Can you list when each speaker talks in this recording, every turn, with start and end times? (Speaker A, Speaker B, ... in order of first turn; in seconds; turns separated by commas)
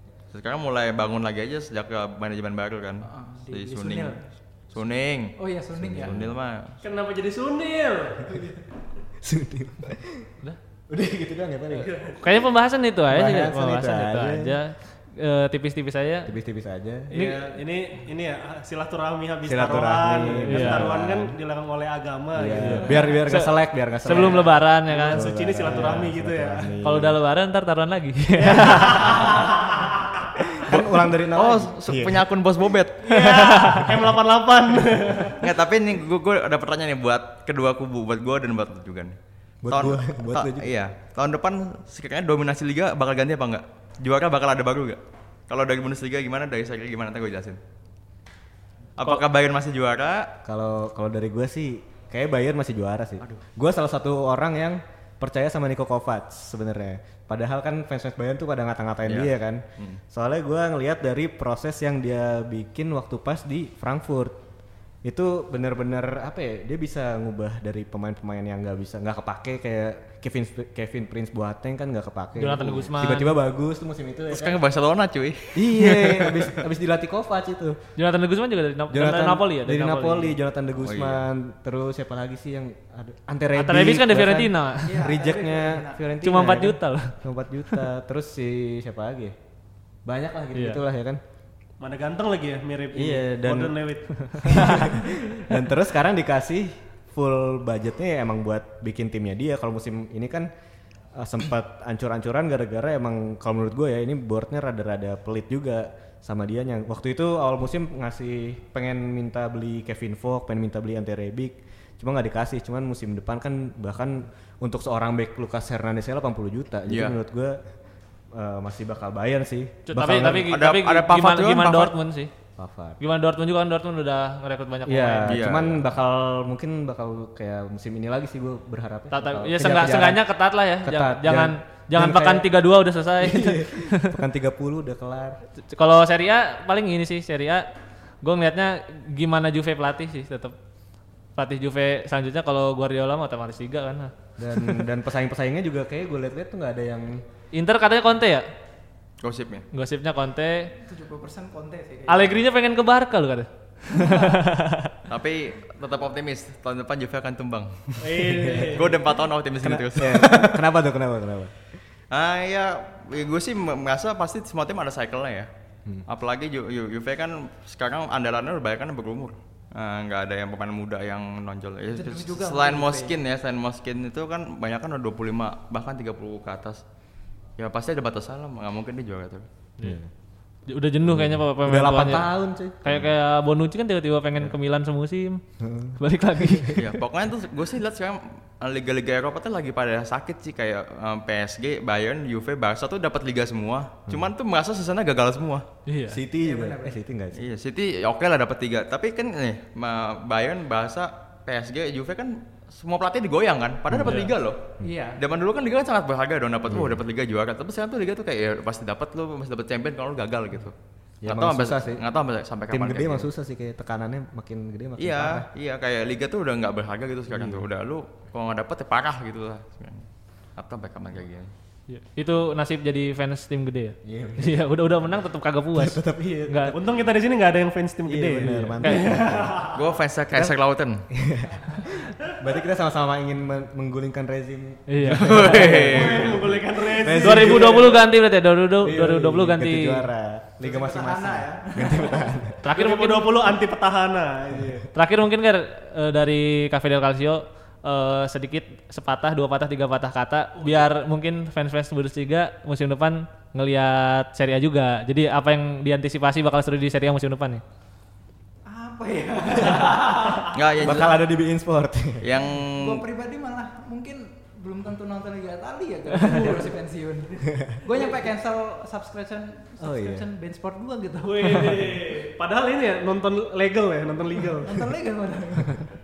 Speaker A: 0.3-5.4, Speaker B: 3.0-4.2, Speaker B: 5.4-6.2, Speaker C: 5.8-6.3, Speaker A: 5.9-6.8, Speaker D: 6.8-8.6, Speaker C: 9.2-10.3, Speaker C: 10.9-11.9, Speaker D: 11.7-12.2, Speaker E: 12.2-16.3, Speaker C: 13.1-14.6, Speaker C: 16.2-17.1, Speaker D: 17.1-23.1, Speaker E: 17.1-17.4, Speaker C: 19.4-21.4, Speaker E: 20.4-21.0, Speaker C: 22.3-24.5, Speaker E: 22.5-25.2, Speaker D: 24.1-26.7, Speaker C: 25.1-27.2, Speaker E: 26.8-29.3, Speaker D: 28.4-29.9, Speaker C: 30.5-32.2, Speaker A: 30.7-33.3, Speaker D: 33.0-35.5, Speaker E: 33.1-33.9, Speaker A: 35.4-39.1, Speaker C: 39.6-40.7, Speaker A: 39.7-47.6, Speaker A: 49.0-50.3, Speaker C: 50.4-64.4, Speaker A: 59.0-60.0, Speaker C: 65.0-74.6, Speaker E: 72.3-73.3, Speaker A: 74.3-76.6, Speaker C: 75.5-77.8, Speaker E: 78.0-80.3, Speaker C: 78.9-89.3, Speaker A: 80.8-81.2, Speaker E: 83.5-85.1, Speaker B: 84.8-86.0, Speaker E: 86.2-87.8, Speaker C: 90.0-91.2, Speaker E: 90.5-90.8, Speaker D: 91.8-94.8, Speaker C: 92.9-93.8, Speaker E: 94.2-95.0, Speaker C: 94.4-100.5, Speaker C: 101.2-117.6, Speaker A: 116.9-117.2, Speaker C: 118.3-120.5, Speaker E: 119.9-122.3, Speaker A: 120.5-121.9, Speaker C: 122.6-123.0, Speaker E: 123.0-125.4, Speaker C: 124.8-130.2, Speaker A: 125.2-125.8, Speaker E: 129.1-134.2, Speaker C: 130.8-132.5, Speaker C: 133.2-135.4, Speaker E: 135.7-137.7, Speaker E: 138.2-140.5, Speaker E: 141.3-144.7, Speaker C: 144.4-147.2, Speaker E: 147.5-148.5, Speaker A: 149.2-149.7, Speaker E: 149.7-150.7, Speaker B: 150.8-152.4, Speaker E: 152.1-154.9, Speaker B: 153.9-154.4, Speaker A: 155.1-160.7, Speaker D: 158.0-159.1, Speaker C: 158.4-158.8, Speaker C: 159.6-161.5, Speaker A: 162.1-165.5, Speaker A: 166.1-176.8, Speaker B: 171.9-173.2, Speaker A: 177.6-179.4, Speaker C: 179.8-180.1, Speaker E: 180.7-182.3, Speaker C: 181.1-183.0, Speaker E: 182.8-185.4, Speaker C: 185.6-186.8, Speaker E: 186.0-186.9, Speaker A: 186.7-195.7, Speaker E: 195.8-196.2, Speaker C: 196.1-197.4, Speaker B: 196.4-196.9, Speaker A: 197.3-210.7, Speaker C: 203.9-204.9, Speaker E: 204.0-204.3, Speaker B: 204.8-205.2, Speaker C: 206.7-207.0, Speaker C: 211.2-212.0, Speaker A: 211.2-213.3, Speaker C: 212.7-215.5, Speaker A: 215.0-221.5, Speaker C: 217.3-217.7, Speaker E: 221.9-226.7, Speaker C: 224.0-224.9, Speaker C: 225.7-226.9, Speaker D: 226.7-229.8, Speaker C: 228.1-229.6, Speaker E: 228.4-229.3, Speaker A: 229.7-231.1, Speaker C: 231.1-238.0, Speaker E: 234.9-235.6, Speaker A: 235.1-236.6, Speaker D: 235.6-238.1, Speaker E: 237.2-240.1, Speaker C: 238.8-242.6, Speaker B: 240.6-242.3, Speaker E: 242.6-243.4, Speaker D: 242.7-244.9, Speaker E: 244.9-257.6, Speaker B: 250.6-250.8, Speaker B: 258.7-260.9, Speaker A: 260.5-261.2, Speaker C: 260.8-262.4, Speaker A: 262.2-263.0, Speaker B: 262.8-272.0, Speaker D: 266.2-266.7, Speaker C: 267.5-267.8, Speaker C: 269.8-270.2, Speaker D: 271.2-274.9, Speaker B: 274.6-275.9